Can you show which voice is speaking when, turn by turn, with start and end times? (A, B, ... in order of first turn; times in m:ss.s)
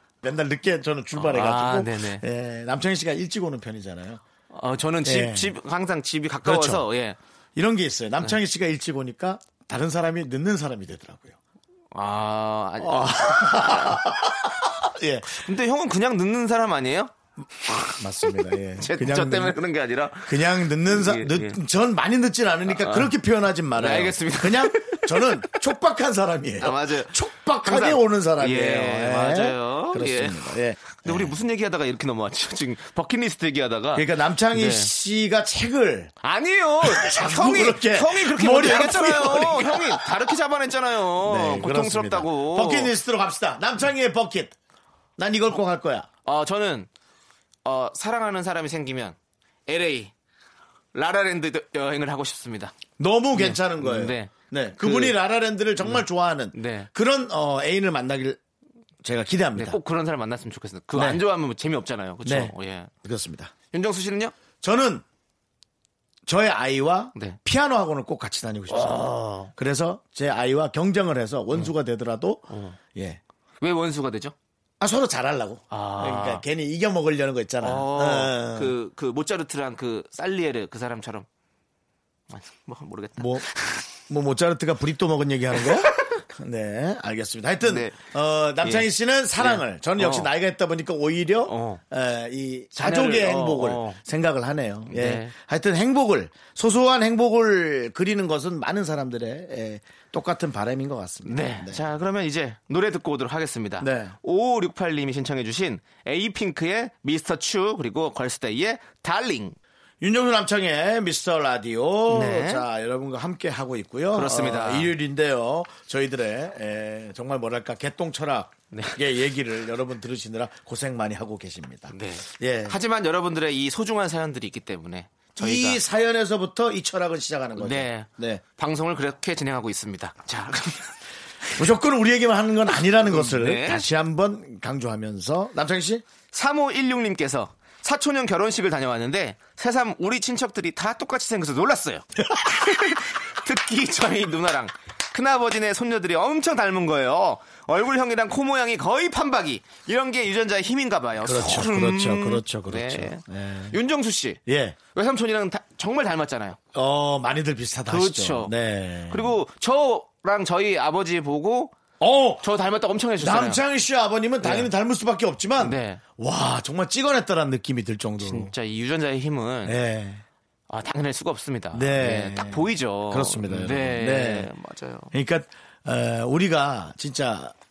0:00.2-0:04.2 A
0:01.2-0:02.2 B
0:04.5-0:07.2 B
0:05.0-0:05.6 A
0:06.4-0:06.9 A
0:07.6-0:11.4 A
0:11.9-0:14.0 B
0:12.8-0:15.4 A
0:15.3-0:17.1 B
0:17.7-0:21.6 B
0:17.9-0:19.6 A
0:20.2-0:31.4 A
0:22.7-0:23.1 B
0:23.8-0:25.6 B
0:26.6-0:34.9 B
0:34.0-0:36.1 A
0:36.2-0:42.9 B
0:36.8-0:40.3 A
0:41.2-0:44.6 A
0:45.2-0:46.1 A
0:46.2-0:46.9 B
0:47.6-0:50.1 B
0:50.9-0:52.8 B
0:53.0-0:58.4 A
0:53.3-0:55.2 B
0:55.8-0:56.9 B
0:59.0-0:59.8 A
0:59.6-1:02.9 B
1:00.9-1:01.2 A
1:02.2-1:03.5 A
1:03.7-1:04.4 B
1:04.6-1:05.0 A
1:06.3-1:13.2 A
1:08.7-1:09.5 B
1:12.5-1:12.8 B
1:13.6-1:14.4 B
1:14.8-1:18.8 A
1:15.7-1:16.4 B
1:17.6-1:21.3 B
1:22.3-1:23.8 B
1:23.2-1:23.5 A
1:24.1-1:41.8 A
1:27.6-1:28.0 B
1:28.6-1:30.3 B
1:31.4-1:31.8 B
1:32.8-1:34.0 B
1:34.9-1:35.3 B
1:41.3-1:49.6 B
1:43.8-1:44.2 A
1:50.0-2:02.8 A
1:52.1-1:52.7 B
1:54.1-1:55.0 B
1:58.7-1:59.0 B
2:01.9-2:05.8 B
2:05.4-2:08.4 A
2:07.6-2:11.0 B
2:11.6-2:16.0 A
2:13.0-2:13.9 B
2:16.3-2:22.1 B
2:22.6-2:34.4 B
2:31.2-2:33.8 A
2:34.5-2:34.8 A
2:34.9-2:36.6 B
2:36.7-2:39.4 A
2:37.9-2:38.5 B
2:39.1-2:41.8 B
2:42.0-2:42.4 A
2:42.4-2:43.6 B
2:43.2-2:48.5 A
2:44.4-2:44.7 B
2:45.6-2:46.0 B
2:48.2-2:49.8 B
2:49.7-2:50.2 A
2:50.7-2:55.1 B
2:51.7-2:54.5 A
2:55.1-2:57.6 A